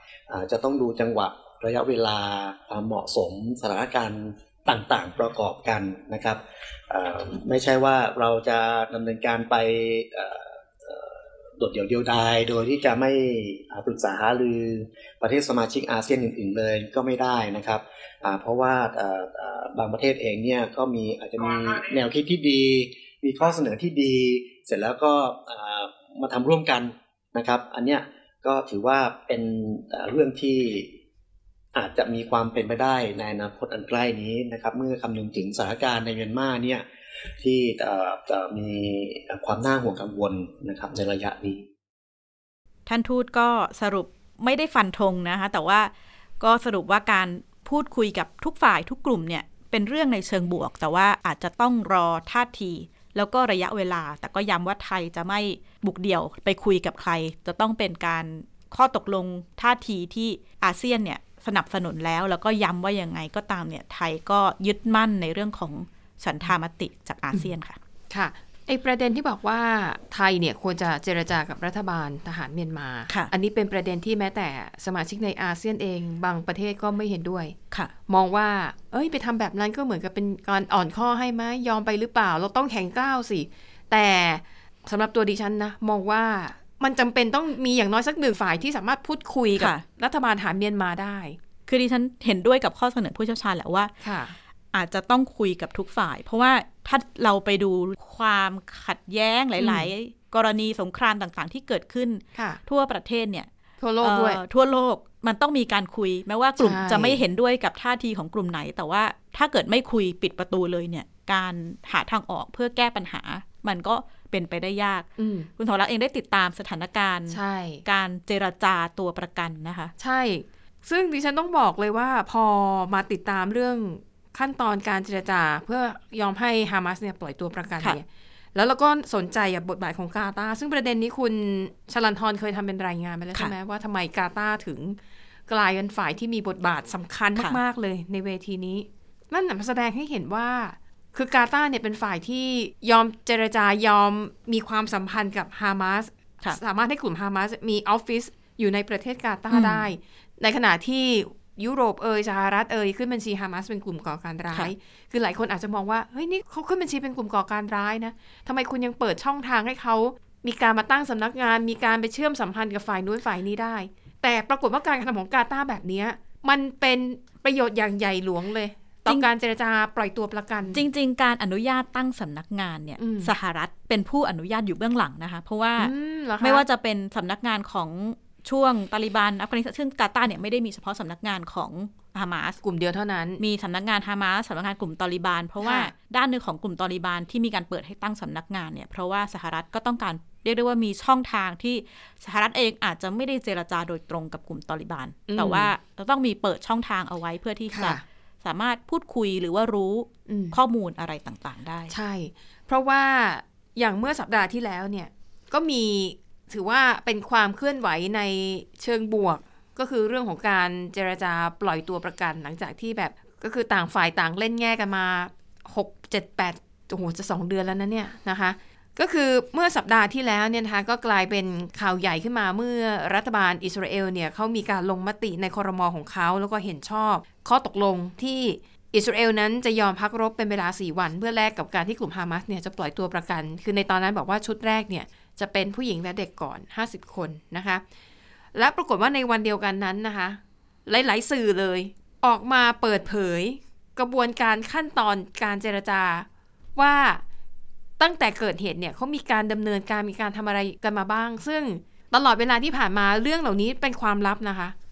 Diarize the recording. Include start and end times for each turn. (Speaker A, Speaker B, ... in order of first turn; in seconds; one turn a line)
Speaker A: 0.3-30.9
Speaker A: 31.7-36.8
Speaker A: 37.4-41.6
Speaker B: 42.9-67.8
Speaker C: 68.1-77.5
Speaker C: 78.1-91.4
Speaker B: 89.5-89.8
Speaker B: 91.7-93.9
Speaker C: 94.0-94.3
Speaker B: 94.7-103.5
Speaker C: 99.6-99.9
Speaker C: 102.3-102.6
Speaker C: 103.8-104.4
Speaker B: 104.0-119.9
Speaker C: 106.6-107.2
Speaker C: 115.2-115.5
Speaker C: 117.3-117.8
Speaker C: 120.0-170.8
Speaker B: 149.5-149.9
Speaker B: 170.7-182.6
Speaker C: 173.0-173.3
Speaker C: 175.8-176.6
Speaker C: 182.6-183.4
Speaker B: 183.4-201.9
Speaker C: 185.6-185.9
Speaker C: 195.3-195.7
Speaker C: 197.7-198.0
Speaker C: 200.3-200.6
Speaker C: 201.9-237.8
Speaker C: 238.5-247.2
Speaker C: 248.0-254.7